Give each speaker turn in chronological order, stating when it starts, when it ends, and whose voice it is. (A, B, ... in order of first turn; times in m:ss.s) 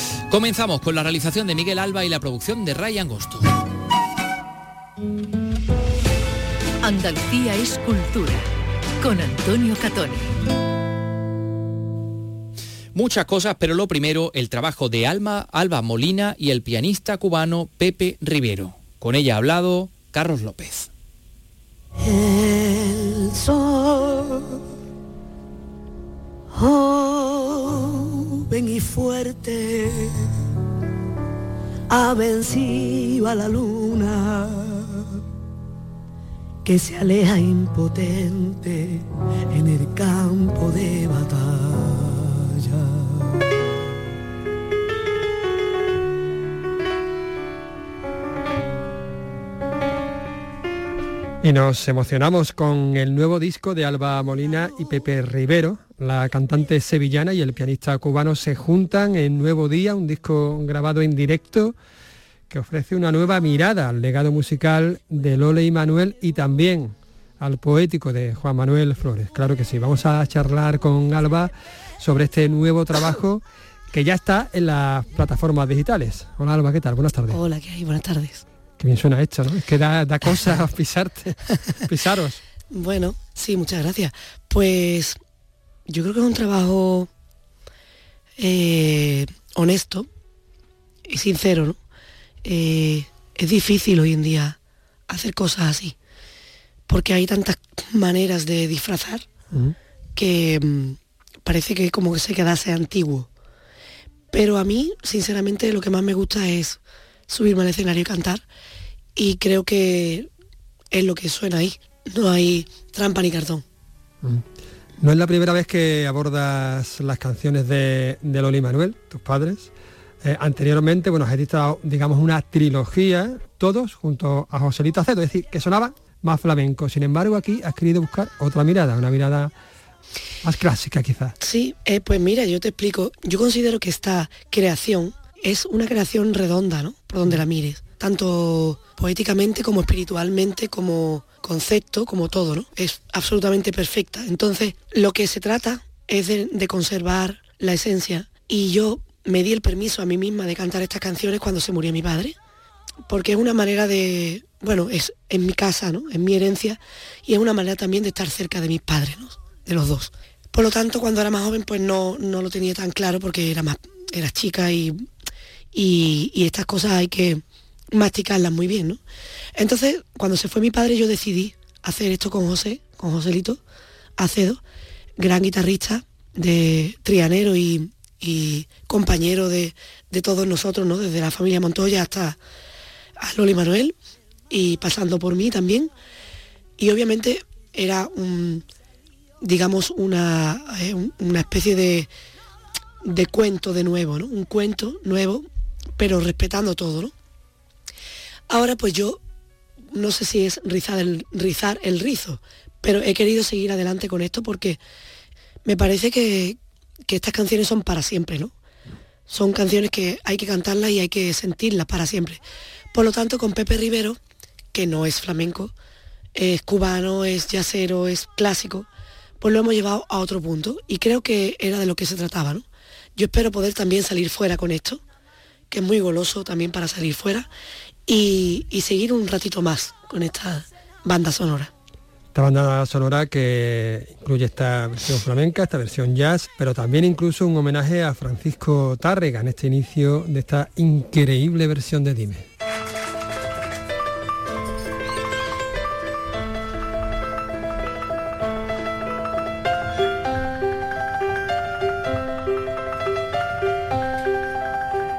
0:00.3-0:03.5 A
0:06.8-0:08.4 B
0:09.0-0:10.3 B
0:12.9-0:20.9 A
0:22.0-0:24.6 C
0:26.5-0:30.3 C
0:31.9-0:35.2 C
0:36.6-0:43.3 C
0:51.4-1:01.8 D
1:02.5-1:17.4 D
1:17.3-1:18.4 E
1:18.8-1:22.4 D
1:22.7-1:25.2 E
1:25.9-1:27.1 E
1:28.4-1:30.1 E
1:31.1-1:31.8 E
1:32.4-1:34.6 E
1:35.1-1:36.0 E
1:36.9-1:39.2 E
1:40.2-1:43.3 E
1:44.3-1:48.4 E
1:49.2-1:50.3 E
1:50.9-1:53.6 E
1:55.0-1:59.7 D
2:00.2-2:09.5 D
2:10.4-2:11.3 D
2:11.4-2:32.4 E
2:33.1-2:45.1 E
2:45.7-2:49.0 E
2:49.6-2:53.6 E
2:54.2-2:54.6 E
2:55.2-3:02.4 E
3:03.2-3:04.0 E
3:04.5-3:05.9 E
3:06.8-3:08.6 E
3:09.4-3:12.1 E
3:13.0-3:17.1 E
3:18.5-3:19.2 E
3:19.9-3:24.8 E
3:25.6-3:28.5 E
3:29.3-3:32.4 E
3:32.9-3:34.2 E
3:34.7-3:35.7 E
3:36.3-3:38.9 E
3:39.4-3:45.0 E
3:45.7-3:47.5 E
3:48.1-3:51.7 E
3:52.3-4:02.4 D